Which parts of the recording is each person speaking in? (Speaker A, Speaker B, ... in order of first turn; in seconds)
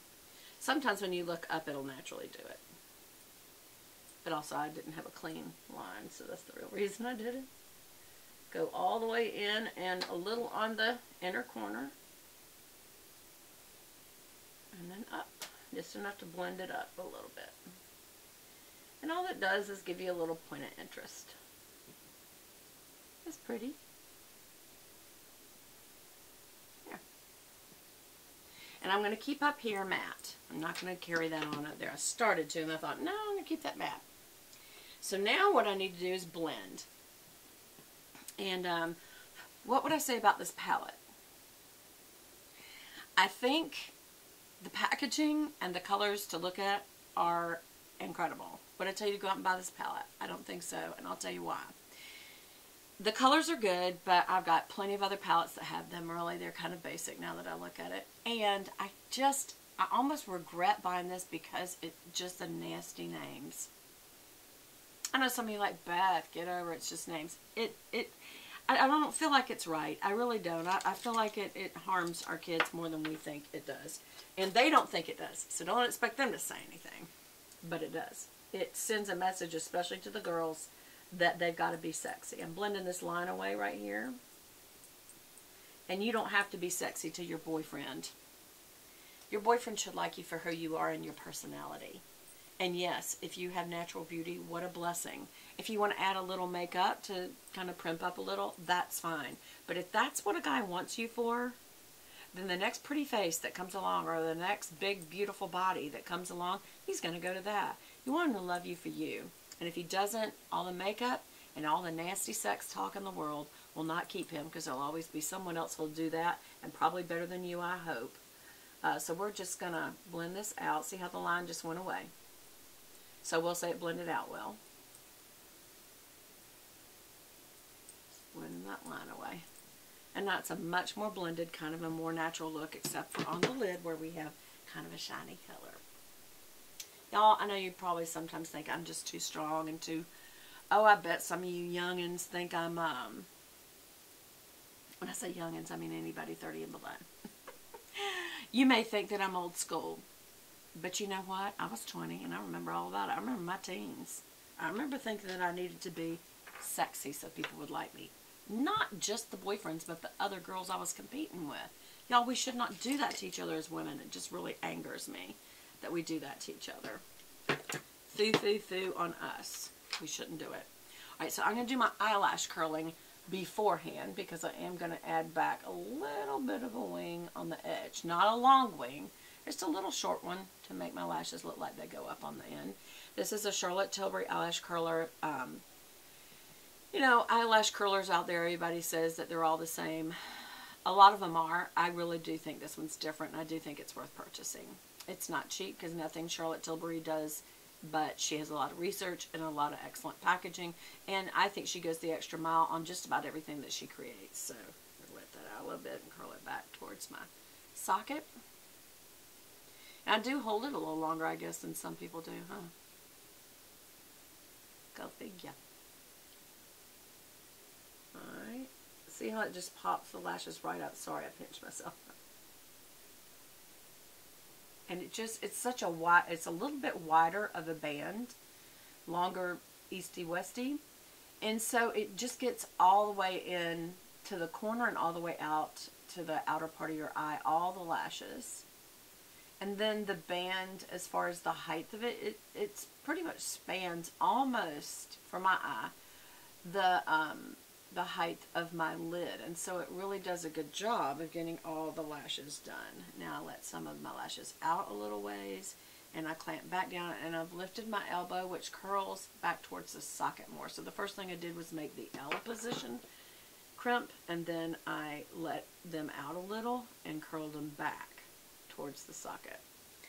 Speaker A: 0.6-2.6, 4.2-7.5, 8.5-11.9, 14.7-17.6, 19.0-21.4, 23.2-23.8, 28.8-34.0, 35.0-36.9, 38.4-39.0, 39.6-41.0, 43.2-43.9, 44.6-51.8, 53.0-63.7, 65.1-77.1, 77.6-84.2, 85.9-88.1, 89.3-92.0, 92.6-101.6, 102.3-118.2, 118.8-122.1, 123.2-124.6, 128.1-129.4, 130.1-135.8, 137.1-140.1, 140.7-143.3, 145.0-147.1, 147.9-150.0, 150.7-167.0, 168.1-185.6, 186.9-208.3, 210.0-212.7, 214.9-215.6, 218.1-222.1, 224.9-228.3, 229.1-230.8, 231.4-238.7, 239.6-245.9, 246.6-263.0, 263.8-269.6